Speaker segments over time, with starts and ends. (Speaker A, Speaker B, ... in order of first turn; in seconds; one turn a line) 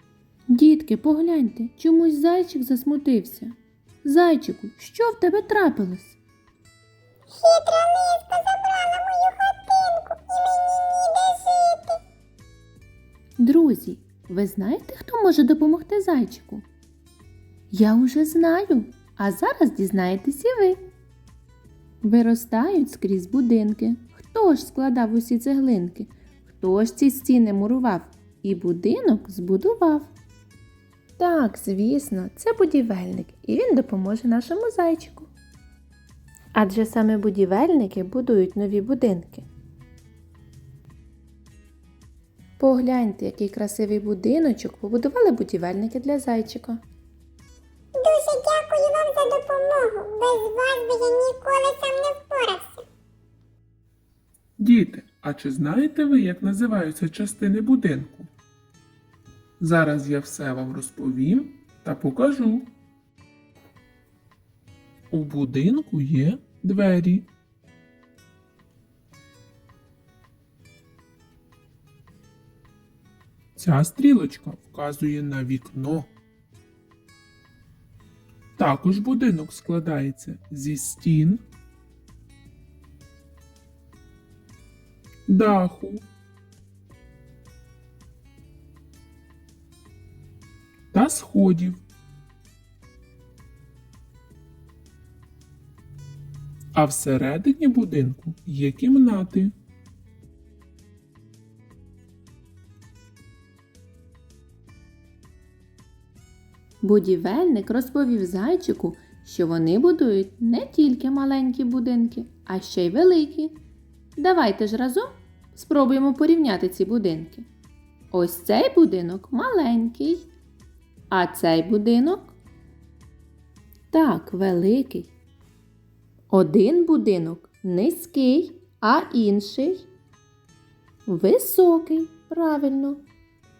Speaker A: 0.5-6.2
Speaker B: 7.3-12.0
Speaker A: 13.4-16.6
Speaker A: 17.7-20.8
Speaker A: 22.0-30.1
Speaker A: 31.2-35.3
Speaker A: 36.5-39.5
Speaker A: 42.6-46.8
Speaker B: 47.9-52.8
Speaker C: 54.6-58.3
Speaker C: 59.6-62.7
Speaker C: 65.1-67.3
Speaker C: 73.6-76.1
Speaker C: 78.6-81.4
Speaker C: 85.3-86.0
Speaker C: 90.9-91.8
Speaker C: 96.7-99.5
Speaker A: 106.8-113.6
Speaker A: 114.2-117.5
Speaker A: 118.1-120.3
Speaker A: 121.1-122.3
Speaker A: 123.9-125.1
Speaker A: 126.3-129.9
Speaker A: 131.1-133.0